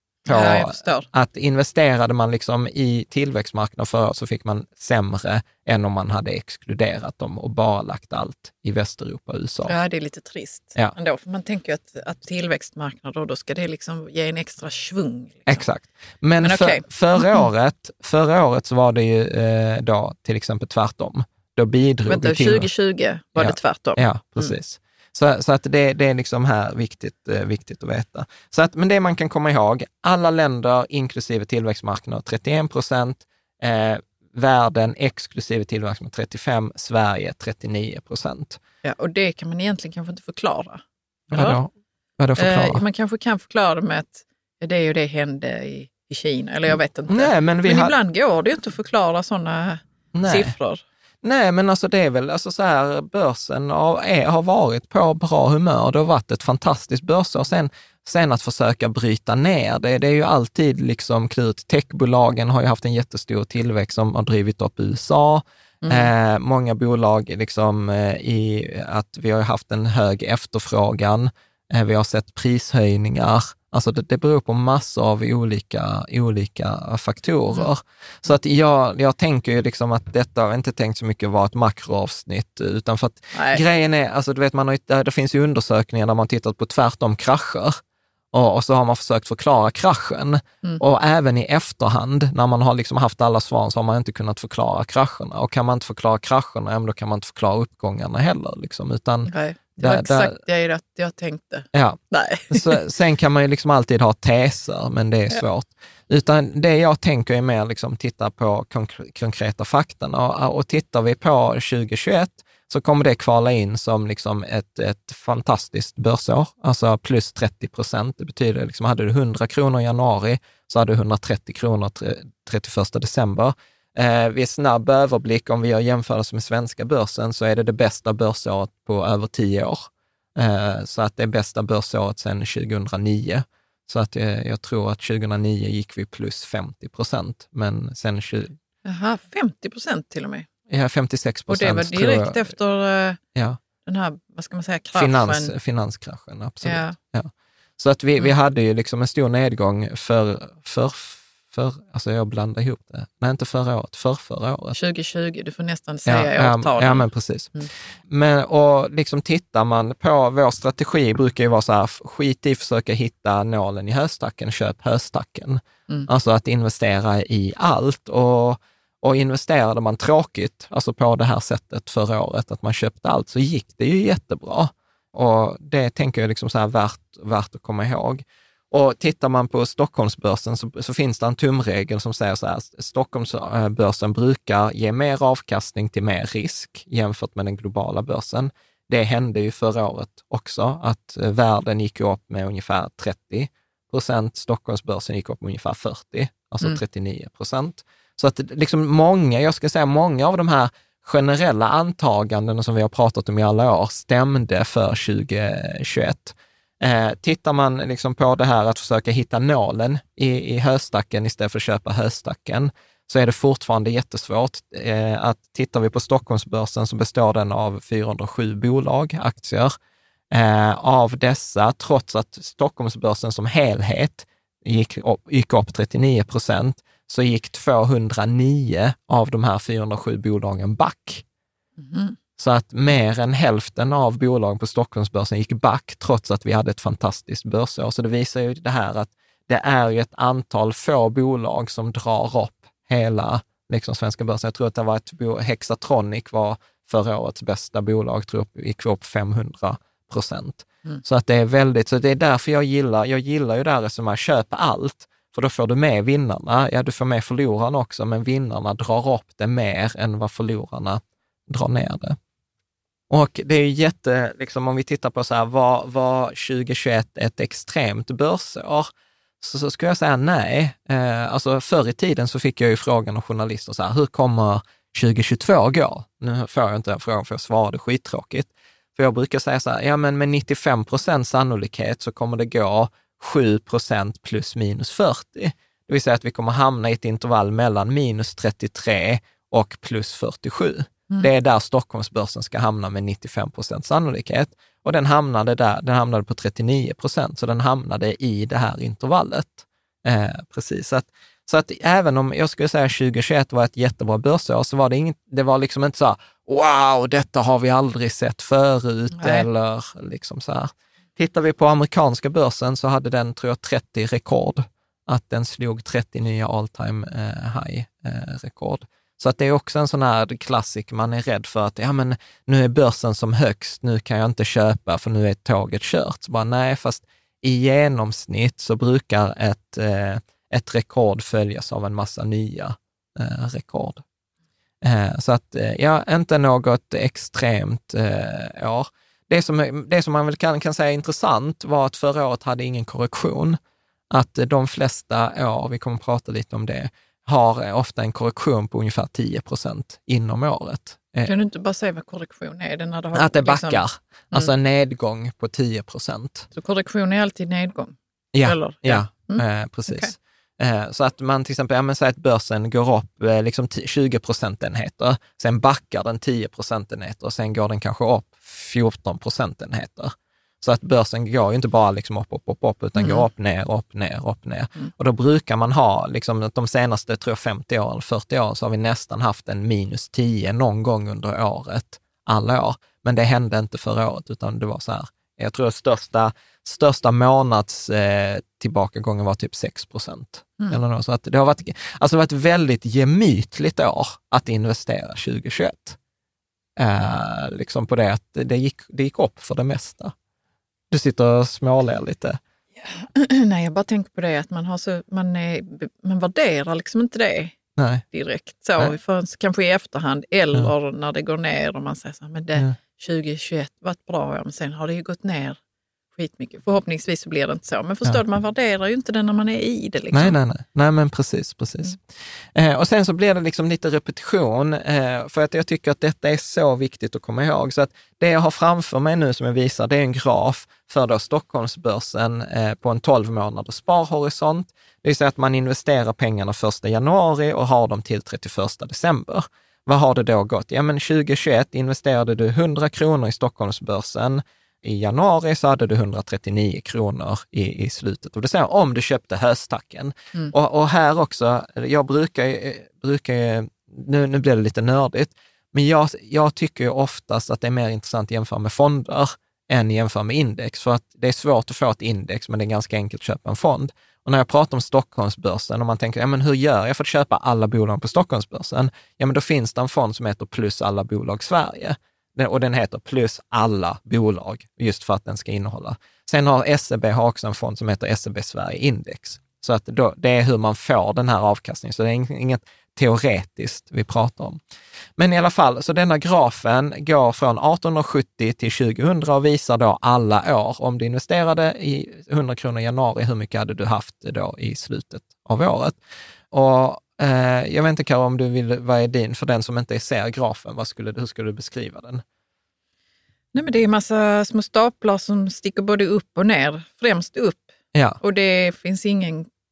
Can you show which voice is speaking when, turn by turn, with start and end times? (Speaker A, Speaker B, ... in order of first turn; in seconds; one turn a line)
Speaker A: 0.2-1.1
Speaker B: 0.3-9.8
Speaker A: 9.7-15.7
Speaker B: 15.5-22.7
Speaker A: 16.4-17.5
Speaker A: 22.1-24.6
Speaker B: 23.4-38.6
Speaker A: 38.8-41.6
Speaker B: 41.3-42.8
Speaker A: 42.4-50.8
Speaker B: 47.1-48.0
Speaker B: 50.1-50.5
Speaker B: 51.2-87.8
Speaker A: 65.8-66.1
Speaker A: 83.3-83.6
Speaker B: 88.3-100.4
Speaker A: 99.3-102.8
Speaker B: 101.7-102.0
Speaker B: 102.5-138.6
Speaker A: 138.8-140.5
Speaker B: 140.7-142.5
Speaker A: 141.5-143.2
Speaker A: 143.8-145.5
Speaker B: 144.9-154.8
Speaker A: 146.6-147.0
Speaker A: 154.7-157.7
Speaker B: 156.1-157.5
Speaker B: 158.1-219.8
Speaker B: 220.3-231.2
Speaker A: 231.8-232.2
Speaker B: 232.4-262.2
Speaker B: 263.1-268.9
Speaker B: 269.4-334.0
Speaker A: 309.1-309.5
Speaker B: 334.8-343.6
Speaker B: 344.1-351.3
Speaker A: 351.3-354.5
Speaker B: 353.1-356.5
Speaker A: 356.5-360.1
Speaker B: 358.3-396.0
Speaker A: 373.0-373.3
Speaker B: 396.8-400.1
Speaker B: 400.9-402.4
Speaker A: 402.8-407.6
Speaker B: 407.8-408.0
Speaker A: 408.1-415.6
Speaker A: 416.1-420.4
Speaker B: 420.1-484.6
Speaker B: 485.2-496.0
Speaker B: 496.5-502.2
Speaker A: 503.5-507.7
Speaker B: 507.9-508.2
Speaker A: 508.2-509.5